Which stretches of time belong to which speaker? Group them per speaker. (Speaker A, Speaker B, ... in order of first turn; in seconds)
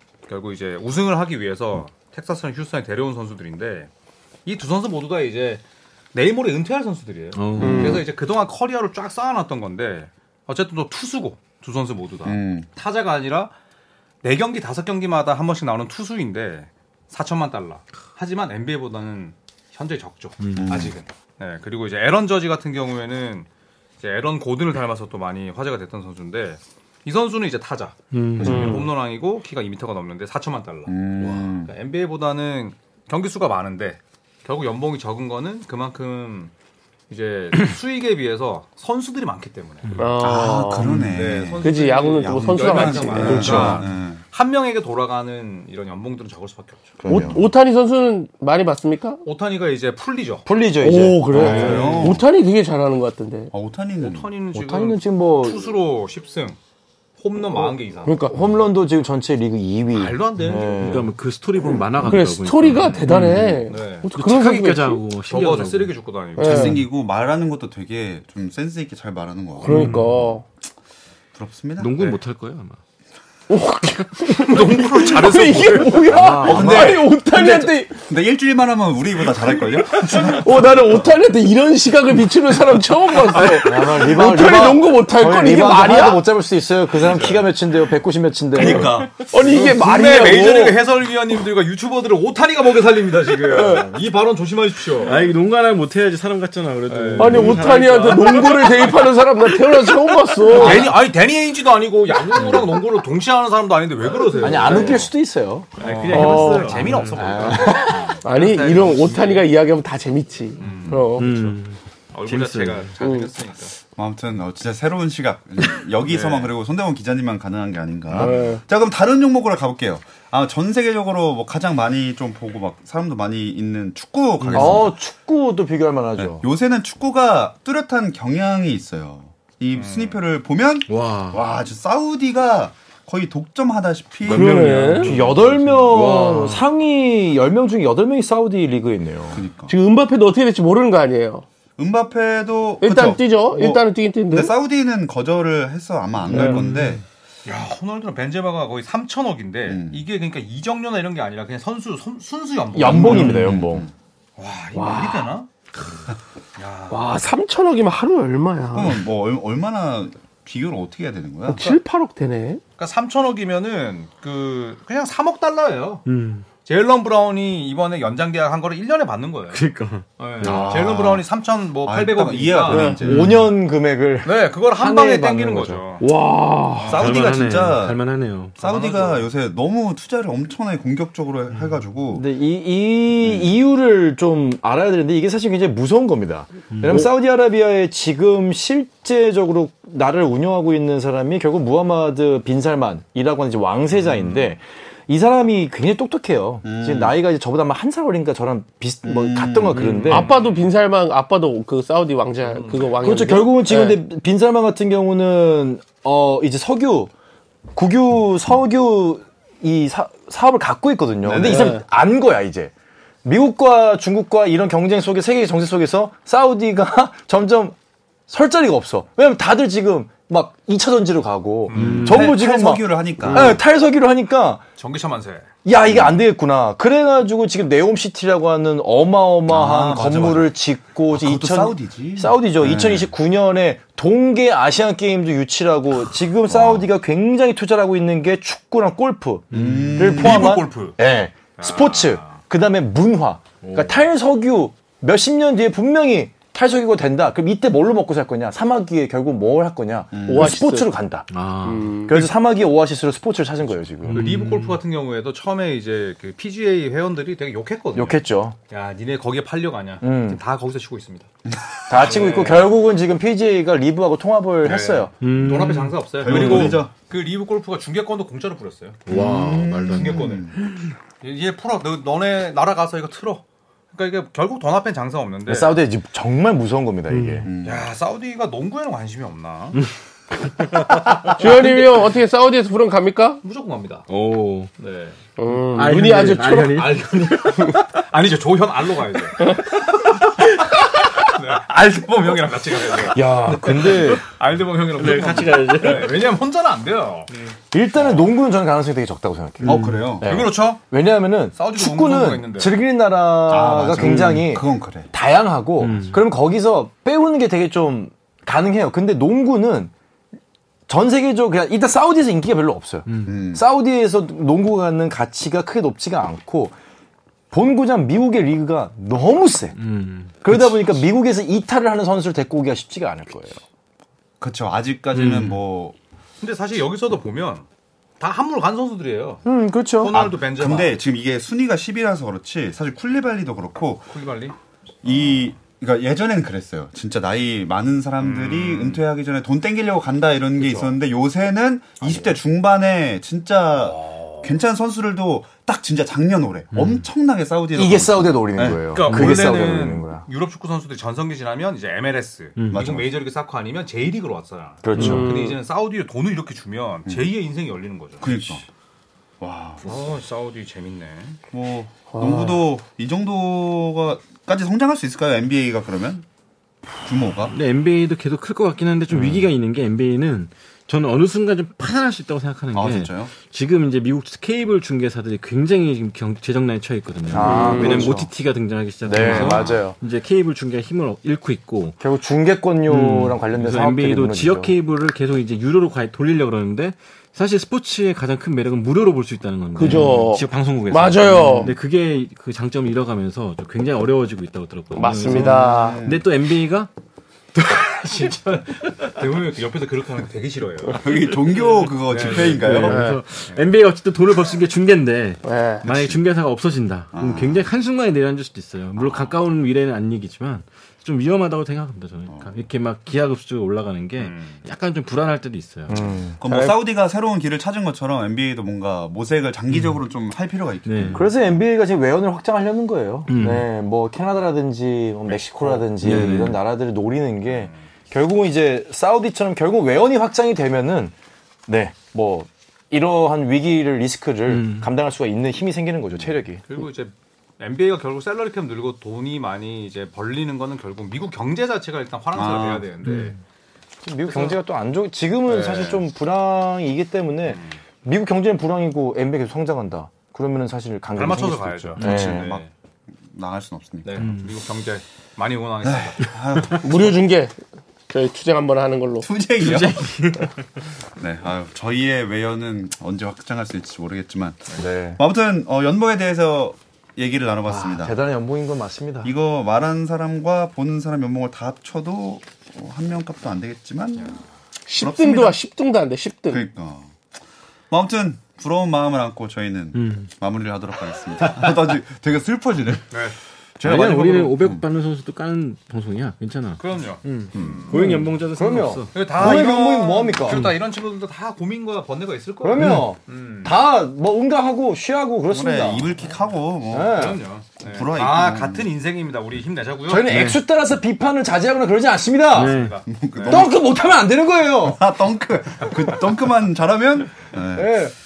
Speaker A: 0.3-3.9, 4.5-13.5, 14.2-23.5, 24.0-36.5, 37.1-39.9, 41.0-47.0, 49.2-50.5, 51.3-52.2, 54.0-56.6, 57.2-58.6, 59.9-61.0, 63.7-64.1, 65.2-66.8, 74.3-76.3, 86.9-87.5, 89.4-95.3, 96.9-97.7, 100.5-105.1, 105.8-109.5, 110.6-111.5, 112.1-113.8, 116.0-116.5, 129.7-130.2, 147.4-153.4, 154.4-155.5, 156.6-157.1, 162.8-166.0, 166.6-169.6, 170.2-173.0, 174.2-176.0, 176.8-177.0, 178.6-179.3, 193.9-194.5, 199.7-200.7, 202.4-203.4, 211.3-211.6, 221.7-222.0, 224.8-225.5, 240.0-241.0, 241.6-242.4, 254.1-261.3, 261.9-262.7, 264.6-269.0, 269.9-270.6, 271.2-275.8, 277.6-279.8, 283.4-284.1, 284.8-285.2, 286.8-289.6, 290.1-298.2, 300.2-300.9, 301.5-302.8, 326.4-327.6, 328.2-329.4, 330.0-331.0, 334.1-334.5, 338.2-339.1, 340.6-340.9, 343.8-344.5, 348.9-358.6, 359.8-361.4, 397.5-401.0, 402.1-402.7, 414.2-414.6, 425.3-425.9, 436.6-443.4, 444.2-444.6, 445.4-446.1, 447.4-447.8, 451.1-452.7, 454.0-456.3, 483.1-483.4, 486.8-488.0, 489.1-493.8, 497.1-500.5, 502.5-503.7
Speaker B: 7.3-8.0, 20.4-20.9, 28.1-28.8, 39.9-40.2, 60.5-63.6, 64.1-66.8, 69.7-70.2, 71.8-72.8, 89.0-89.4, 95.0-99.2, 100.5-100.8, 105.8-107.7, 111.1-112.9, 124.4-124.9, 130.9-131.4, 134.2-136.6, 166.1-166.5, 169.5-170.8, 173.0-173.4, 176.9-178.6, 186.7-187.1, 221.7-222.3, 239.5-240.0, 243.6-244.1, 251.3-252.0, 254.0-254.8, 265.2-266.8, 269.1-270.8, 284.1-284.7, 285.6-287.7, 294.9-296.2, 299.6-300.1, 303.9-304.4, 305.8-306.2, 313.1-313.4, 319.8-320.6, 325.1-325.6, 346.7-347.1, 349.0-349.7, 352.6-352.9, 354.9-355.2, 367.5-382.0, 382.9-396.9, 402.2-416.1, 419.7-420.0, 420.8-421.3, 423.3-423.6, 426.0-426.6, 434.5-434.9, 443.0-443.4, 452.0-452.3, 454.2-454.5, 459.6-460.8, 479.9-480.3, 483.8-489.2, 490.5-490.8, 492.8-493.1, 502.5-503.0
Speaker C: 7.6-8.0, 28.4-28.9, 40.0-41.0, 41.6-43.8, 47.1-49.2, 50.8-53.5, 58.0-58.3, 62.0-65.0, 66.4-66.8, 69.6-70.5, 73.5-77.9, 79.8-86.2, 88.6-90.8, 93.4-93.9, 97.2-100.9, 104.7-105.0, 106.1-106.8, 108.1-111.4, 113.0-113.3, 118.1-118.6, 134.2-135.1, 139.7-141.4, 142.8-144.5, 146.3-146.6, 154.7-155.3, 156.9-159.0, 161.5-162.6, 172.7-173.0, 176.0-177.0, 200.1-204.0, 211.3-211.8, 223.2-223.6, 250.2-250.9, 251.6-252.1, 277.1-277.4, 281.3-283.4, 285.4-286.9, 289.4-289.8, 354.9-355.6, 362.1-362.7, 377.4-378.0, 389.7-391.8, 394.9-396.0, 402.8-403.2, 405.4-405.9, 416.4-416.8, 456.8-457.6, 458.1-459.3, 474.9-476.6
Speaker D: 12.2-12.7, 20.6-20.9, 28.4-28.7, 30.9-31.7, 40.2-44.2, 51.4-52.2, 53.5-54.3, 66.4-70.0, 71.3-72.0, 76.4-77.1, 77.9-80.6, 88.6-89.1, 113.8-124.9, 126.2-135.2, 139.3-139.7, 141.8-147.0, 149.6-150.0, 152.8-153.9, 158.7-161.8, 170.4-171.2, 171.8-173.3, 176.9-178.0, 178.6-182.2, 183.2-183.5, 196.6-197.2, 199.0-200.0, 221.7-223.6, 225.8-226.2, 229.4-230.5, 231.1-233.1, 236.5-236.9, 239.5-240.6, 250.1-250.6, 261.4-262.1, 266.2-266.9, 269.1-270.6, 277.4-277.8, 299.6-300.4, 303.5-305.1, 313.2-313.6, 324.4-325.9, 330.1-334.2, 335.0-348.9, 352.7-353.1, 357.1-357.3, 358.2-358.6, 359.4-359.9, 361.5-366.2, 367.0-367.5, 372.7-373.3, 379.3-379.7, 395.2-396.2, 400.9-403.1, 405.8-406.2, 407.1-407.7, 409.0-409.3, 412.3-412.5, 416.4-421.3, 442.3-442.9, 452.0-452.6, 453.2-454.2, 455.8-457.2, 459.2-460.0, 461.2-468.1, 469.2-474.4, 475.0-475.6, 476.5-477.1, 477.9-484.8, 487.5-488.0, 489.4-490.3, 495.5-498.9, 503.1-503.8, 504.8-508.0
Speaker E: 43.2-43.8, 47.0-47.4, 50.5-51.9, 54.5-55.8, 58.3-61.1, 76.1-77.7, 83.6-89.0, 104.4-105.7, 107.1-108.0, 124.5-126.5, 135.0-139.4, 146.3-146.8, 152.7-153.9, 173.0-175.8, 182.1-200.3, 203.0-207.1, 207.7-212.7, 213.2-217.8, 218.3-224.6, 225.6-251.2, 252.0-254.3, 257.9-258.6, 260.0-260.4, 261.9-265.1, 269.1-269.7, 275.4-277.5, 293.1-294.2, 297.7-309.9, 310.9-316.8, 317.5-319.7, 320.4-323.6, 329.4-330.1, 347.7-350.2, 354.8-355.4, 369.1-369.4, 377.3-378.3, 379.0-380.0, 382.0-384.7, 415.9-416.4, 421.1-431.1, 431.7-436.6, 444.0-452.5, 464.8-465.2, 467.6-469.3, 487.9-490.6, 492.6-496.1, 496.9-497.4, 500.1-502.7, 503.4-505.0, 507.7-508.1